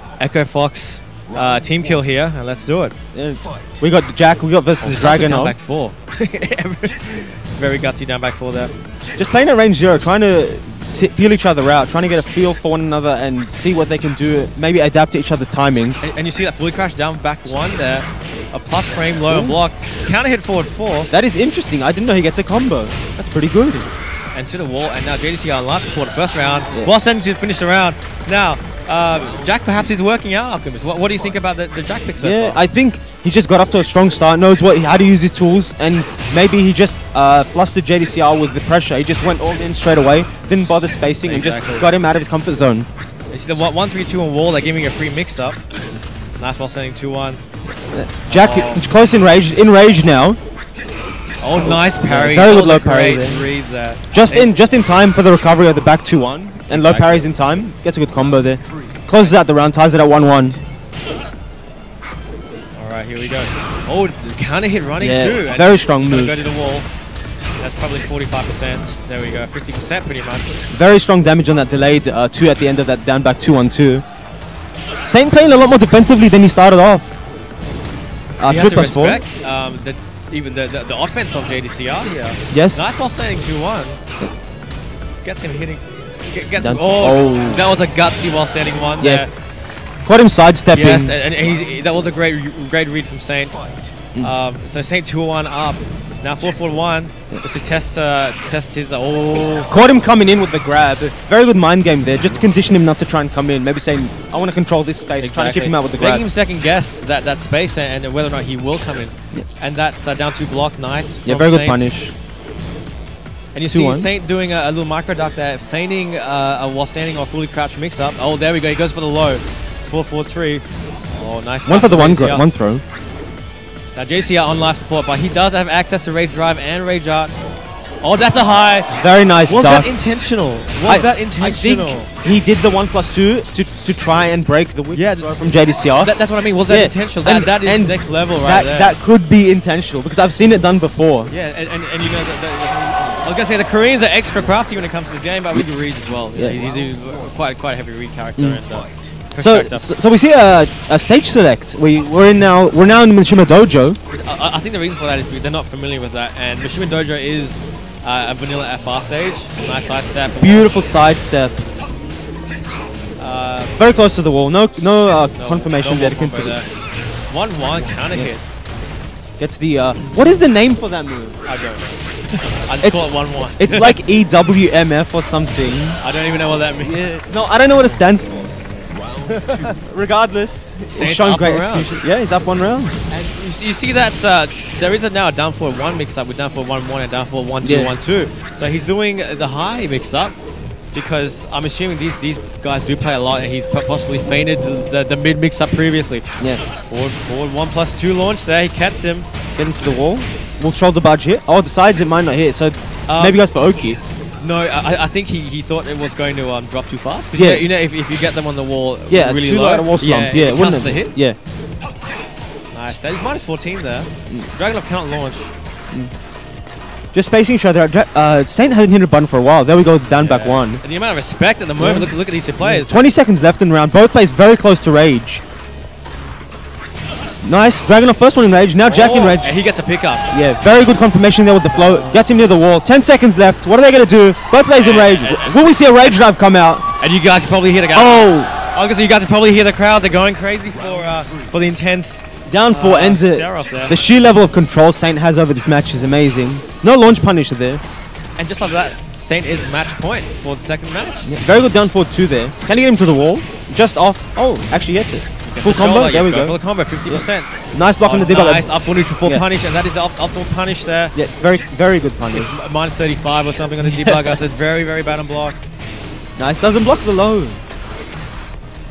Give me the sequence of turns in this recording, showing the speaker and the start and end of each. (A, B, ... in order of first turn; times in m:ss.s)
0:00.2-0:02.9 A
0:03.1-0:05.5 B
0:04.8-0:08.7 A
0:09.2-0:16.0 B
0:16.0-0:21.1 A
0:19.3-0:19.6 B
0:21.1-0:23.9 B
0:24.3-0:32.6 A
0:32.2-0:42.9 B
0:41.2-0:41.9 A
0:43.3-0:45.6 A
0:46.4-0:47.4 A
0:47.9-0:50.4 B
0:48.3-0:48.8 A
0:51.4-0:54.5 A
0:51.5-0:53.4 B
0:54.1-1:00.6 B
0:56.7-0:57.3 A
1:02.7-1:06.9 A
1:05.0-1:06.4 B
1:07.6-1:10.6 A
1:10.7-1:14.0 B
1:15.0-1:17.2 B
1:18.4-1:19.2 B
1:18.4-1:24.0 A
1:22.5-1:23.0 B
1:25.2-1:29.3 A
1:26.6-1:27.6 B
1:29.0-1:29.2 B
1:30.0-1:31.2 B
1:30.7-1:33.6 A
1:34.2-1:39.7 A
1:39.7-1:46.2 B
1:45.2-1:51.9 A
1:51.2-1:52.1 B
1:53.5-2:02.5 A
1:53.7-1:54.1 B
2:01.6-2:02.8 B
2:03.9-2:07.3 A
2:08.0-2:08.9 A
2:09.0-2:09.9 B
2:09.4-2:12.1 A
2:10.8-2:21.3 B
2:14.9-2:15.3 A
2:16.0-2:19.0 A
2:21.3-2:29.9 A
2:29.4-2:34.0 B
2:34.1-2:40.9 A
2:40.4-2:41.6 B
2:43.2-2:43.8 A
2:43.8-2:46.6 B
2:45.3-2:46.7 A
2:47.3-2:48.4 A
2:49.4-2:51.4 B
2:51.4-2:51.9 A
2:52.7-2:54.0 A
2:52.8-2:56.0 B
2:56.0-2:57.0 A
2:56.8-2:58.5 B
2:59.2-3:02.9 B
3:00.9-3:02.0 A
3:03.1-3:10.4 A
3:07.6-3:07.9 B
3:10.9-3:16.2 A
3:16.8-3:19.3 A
3:19.6-3:24.0 B
3:23.1-3:23.4 A
3:24.4-3:31.1 A
3:27.3-3:27.6 B
3:29.1-3:31.4 B
3:32.7-3:35.5 A
3:37.1-3:40.8 B
3:40.2-3:43.1 A
3:41.8-3:45.4 B
3:47.4-3:49.5 B
3:48.8-3:50.3 A
3:50.3-3:56.8 B
3:51.7-3:52.2 A
3:54.7-3:55.6 A
3:57.0-4:04.0 A
3:57.9-3:58.5 B
4:02.5-4:07.8 B
4:08.4-4:11.4 A
4:11.2-4:18.7 B
4:15.4-4:21.2 A
4:21.1-4:22.5 B
4:22.3-4:25.6 A
4:23.9-4:24.4 B
4:26.4-4:27.6 B